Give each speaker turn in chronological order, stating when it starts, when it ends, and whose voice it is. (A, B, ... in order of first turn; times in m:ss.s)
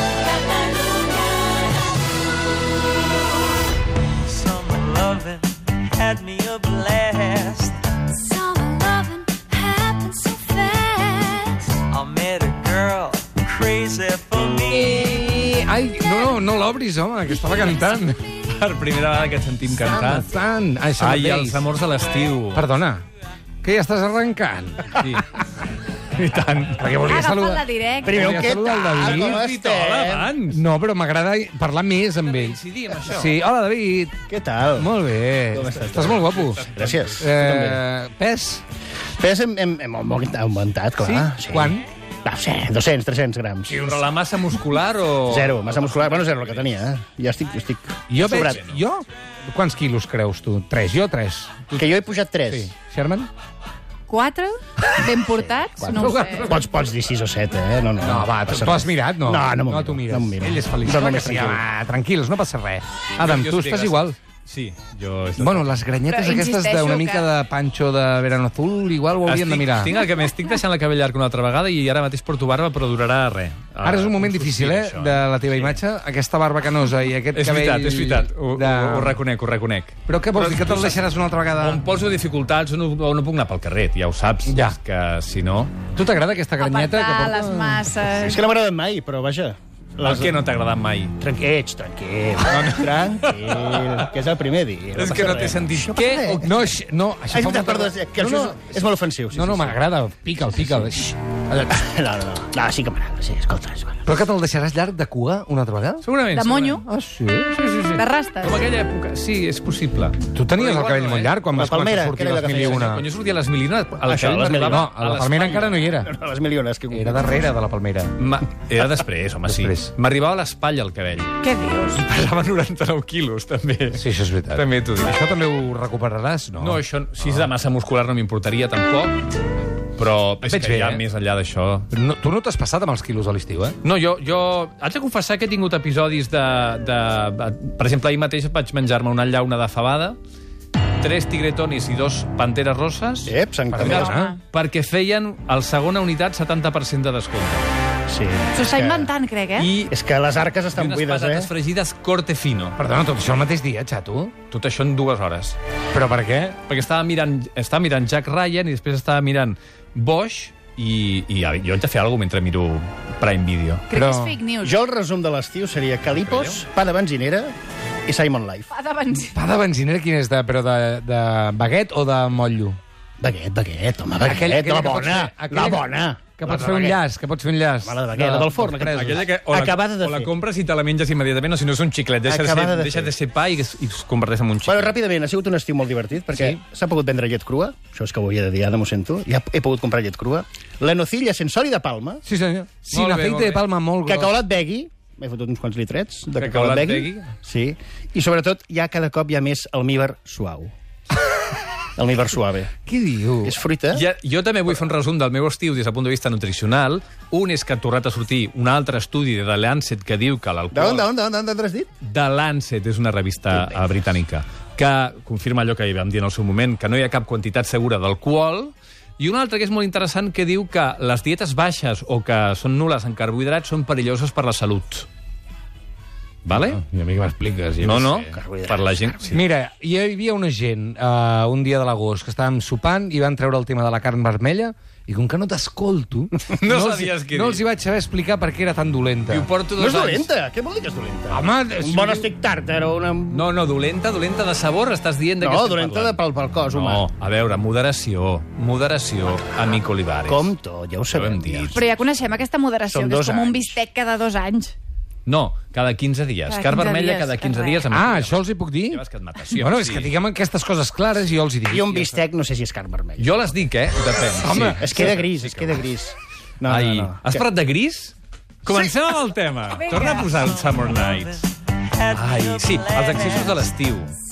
0:04.3-0:07.8 A
0:08.1-0:11.7 B
0:10.4-0:10.9 C
0:11.9-0:14.9 A
0:14.7-0:18.3 D
0:18.5-0:20.3 E
0:19.8-0:21.6 D
0:21.0-0:22.6 E
0:22.5-0:23.0 D
0:23.6-0:25.2 D
0:25.0-0:25.3 E
0:26.2-0:26.9 E
0:26.8-0:29.4 D
0:27.0-0:28.2 C
0:28.0-0:30.4 F
0:28.9-0:30.6 E
0:30.5-0:34.1 D
0:32.2-0:33.4 E
0:34.3-0:34.9 F
0:34.8-0:36.6 D
0:35.5-0:37.8 F
0:35.9-0:37.3 E
0:37.2-0:38.6 D
0:39.2-0:43.8 F
0:41.0-0:41.9 D
0:43.7-0:46.8 E
0:45.3-0:48.6 F
0:48.1-0:51.7 D
0:48.2-0:48.8 E
0:51.7-0:52.2 E
0:51.8-0:52.7 F
0:52.5-0:53.3 D
0:54.1-0:56.5 C
0:55.3-1:01.6 F
0:55.8-0:56.6 D
0:58.0-1:04.2 D
1:03.2-1:05.8 E
1:05.4-1:09.9 D
1:06.1-1:07.3 C
1:09.3-1:15.8 E
1:13.8-1:19.2 D
1:17.3-1:21.1 E
1:20.1-1:21.9 D
1:21.6-1:25.8 E
1:24.5-1:24.8 D
1:25.9-1:27.8 D
1:26.6-1:28.4 C
1:28.2-1:30.5 F
1:30.0-1:31.2 E
1:31.2-1:36.7 F
1:32.4-1:34.1 E
1:34.9-1:36.5 E
1:36.4-1:41.7 D
1:37.3-1:39.8 F
1:41.7-1:44.0 F
1:44.1-1:46.1 D
1:46.0-1:46.8 E
1:46.3-1:46.8 C
1:46.8-1:47.8 D
1:47.6-1:51.4 E
1:48.0-1:48.6 C
1:50.3-1:53.0 D
1:51.5-1:52.9 F
1:52.4-1:55.7 E
1:54.1-1:57.3 F
1:54.6-1:56.1 D
1:56.9-1:58.2 D
1:58.2-2:01.4 E
1:59.5-1:59.9 D
2:01.4-2:02.0 C
2:01.9-2:05.2 E
2:03.9-2:07.5 D
2:06.6-2:09.3 E
2:10.0-2:11.9 E
2:10.4-2:11.0 D
2:11.9-2:13.8 D
2:13.8-2:20.2 E
2:21.0-2:27.7 E
2:23.2-2:24.1 F
2:23.7-2:24.3 D
2:23.8-2:24.4 C
2:28.1-2:29.1 F
2:28.5-2:29.8 C
2:29.6-2:29.9 E
2:29.8-2:31.5 F
2:30.7-2:32.8 E
2:32.8-2:34.3 D
2:34.5-2:35.6 E
2:35.9-2:36.6 D
2:36.6-2:43.9 E
2:43.9-2:44.8 C
2:43.9-2:44.4 D
2:44.6-2:47.5 F
2:46.1-2:46.6 E
2:48.0-2:48.7 F
2:48.7-2:49.4 C
2:49.3-2:52.8 D
2:53.2-2:57.0 F
2:54.2-2:59.2 D
2:57.8-3:00.3 F
2:58.7-3:05.0 E
3:02.2-3:03.1 F
3:04.6-3:12.2 F
3:06.3-3:06.6 D
3:12.2-3:14.4 D
3:12.9-3:13.6 E
3:14.0-3:20.7 F
3:16.4-3:17.3 E
3:22.0-3:22.7 F
3:22.9-3:23.6 D
3:23.4-3:24.0 F
3:23.9-3:31.1 E
3:30.7-3:31.9 F
3:32.0-3:45.1 E
3:46.4-3:46.8 E
3:46.5-3:48.4 D
3:47.8-3:49.4 E
3:48.3-3:49.2 F
3:49.3-3:59.5 D
3:56.5-3:57.6 E
3:59.3-4:00.3 E
3:59.8-4:03.5 F
4:01.3-4:02.3 D
4:03.3-4:10.5 E
4:05.4-4:07.1 F
4:10.3-4:11.8 F
4:11.1-4:12.0 E
4:11.7-4:14.7 C
4:12.9-4:13.8 F
4:15.3-4:20.1 E
4:16.5-4:17.9 C
4:17.9-4:22.1 D
4:21.7-4:23.5 F
4:23.2-4:25.9 E
4:24.2-4:25.2 D
4:24.8-4:27.4 F
4:26.6-4:34.2 E
4:29.9-4:30.2 C